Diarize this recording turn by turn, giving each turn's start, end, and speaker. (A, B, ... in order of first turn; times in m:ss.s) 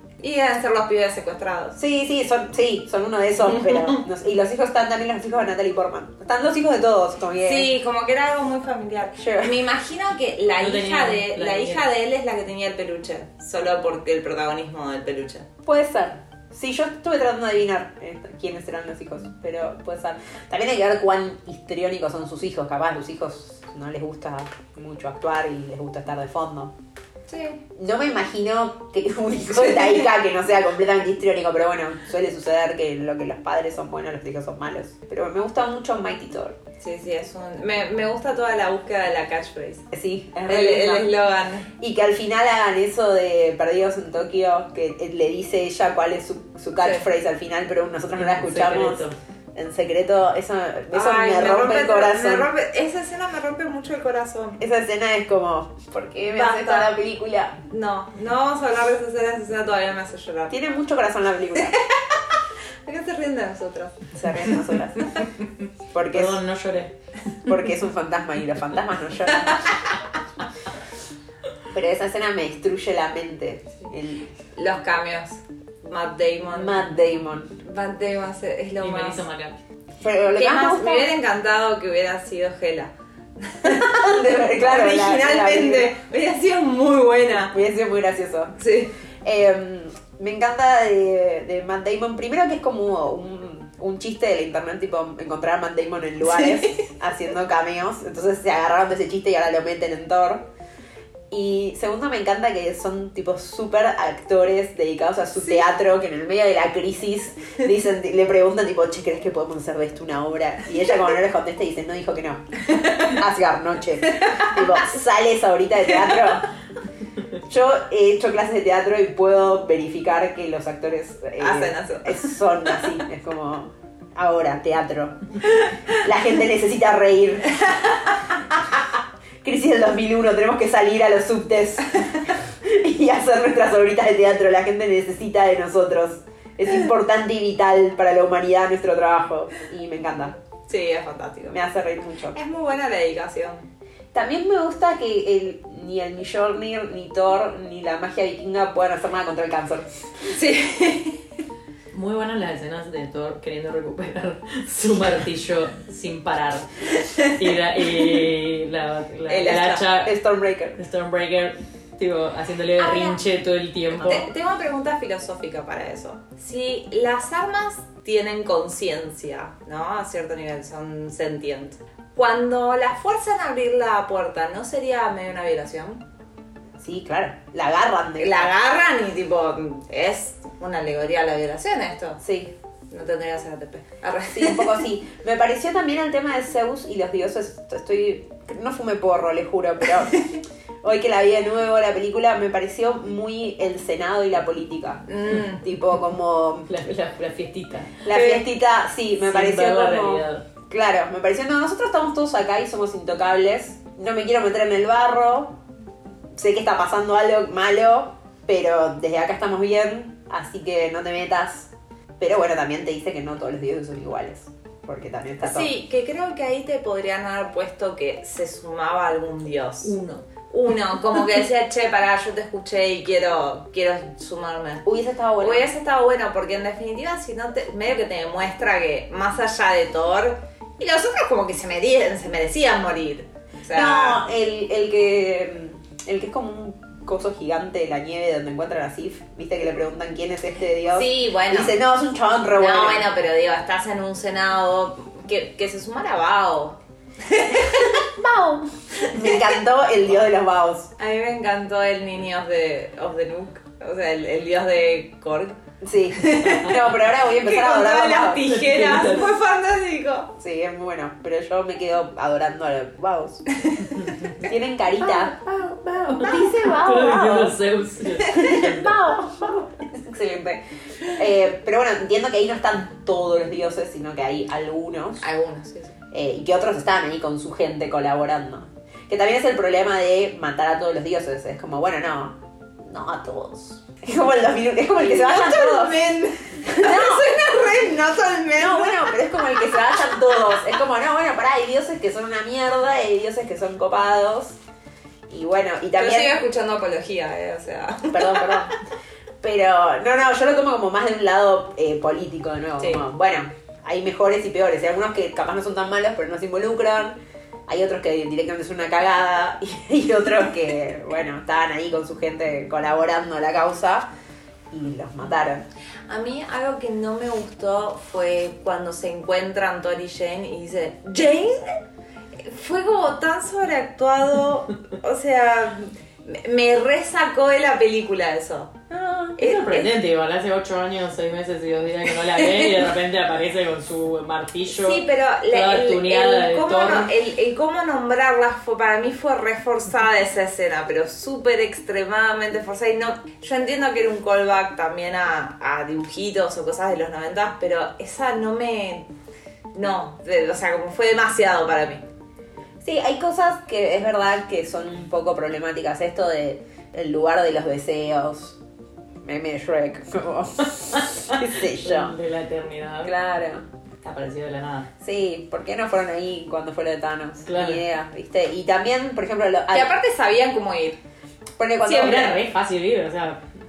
0:00.2-0:01.8 A
0:01.8-0:07.7 B
0:03.5-0:04.0 A
0:07.4-0:15.4 A
0:09.2-0:09.6 B
0:10.6-0:11.8 C
0:15.6-0:26.7 B
0:27.3-0:27.6 A
0:27.7-0:36.6 B
0:36.8-0:39.9 A
0:39.9-0:41.1 B
0:40.4-0:41.7 A
0:41.8-0:52.5 B
0:48.2-0:49.1 C
0:50.9-0:54.6 A
0:54.6-0:57.6 B
0:56.3-0:56.9 A
0:57.7-1:00.5 A
1:00.5-1:01.8 B
1:01.6-1:02.2 A
1:02.8-1:04.1 A
1:04.1-1:05.2 B
1:05.9-1:06.4 B
1:06.1-1:06.9 C
1:07.4-1:09.6 B
1:11.7-1:14.3 B
1:14.5-1:16.8 A
1:16.5-1:17.5 B
1:17.6-1:19.2 A
1:18.8-1:19.6 C
1:20.0-1:21.1 B
1:20.3-1:27.5 A
1:23.6-1:25.9 B
1:27.5-1:28.5 B
1:28.6-1:28.9 A
1:29.2-1:40.4 B
1:36.2-1:36.8 A
1:41.3-1:56.5 B
1:52.7-1:53.1 A
1:54.1-1:54.6 A
1:57.5-2:05.2 B
2:01.4-2:02.4 A
2:06.0-2:07.8 B
2:07.6-2:08.2 A
2:09.4-2:20.4 B
2:20.7-2:21.6 A
2:21.5-2:22.4 B
2:22.3-2:23.7 A
2:24.1-2:30.0 B
2:30.3-2:31.2 A
2:31.9-2:40.2 C
2:39.3-2:40.8 B
2:40.8-2:44.3 C
2:42.8-2:43.2 A
2:43.9-2:56.0 A
2:56.8-2:58.5 B
2:58.2-3:02.2 A
3:02.2-3:02.5 B
3:02.9-3:04.8 A
3:04.3-3:10.3 B
3:10.8-3:16.7 B
3:15.1-3:15.6 A
3:16.7-3:18.0 C
3:18.0-3:25.6 B
3:18.1-3:18.4 A
3:19.2-3:20.4 C
3:26.3-3:35.7 B
3:35.4-3:44.9 A
3:44.8-3:45.7 B
3:45.4-3:54.2 A
3:53.7-4:03.1 B
4:00.9-4:01.8 A
4:02.5-4:08.0 A
4:07.9-4:10.9 B
4:09.0-4:09.4 A
4:11.0-4:15.6 A
4:15.8-4:18.5 B
4:16.1-4:20.3 A
4:18.4-4:19.3 C
4:20.4-4:23.4 B
4:24.4-4:25.4 B
4:25.0-4:29.0 C
4:26.2-4:27.6 B
4:28.2-4:35.2 B
4:35.2-4:36.0 A
4:36.1-4:46.0 B
4:45.0-4:49.1 A
4:46.6-4:47.4 B
4:48.5-4:54.6 B
4:55.3-4:56.4 B
4:56.0-4:58.7 A
4:58.1-4:58.7 B
4:59.4-5:07.2 B
5:02.8-5:03.0 A
5:07.7-5:14.1 B
5:14.7-5:15.6 B
5:16.1-5:21.8 A
5:22.4-5:28.8 A
5:28.9-5:29.4 B
5:29.4-5:29.9 A
5:29.4-5:37.1 C
5:32.4-5:32.7 A
5:34.7-5:49.1 A
5:49.7-5:52.0 A
5:52.8-5:58.6 B
5:59.2-6:02.2 B
6:01.3-6:03.1 C
6:03.0-6:03.6 B
6:04.0-6:04.9 C
6:05.0-6:09.9 B
6:07.5-6:07.8 C
6:09.7-6:11.0 A
6:11.6-6:12.4 B
6:11.8-6:13.4 C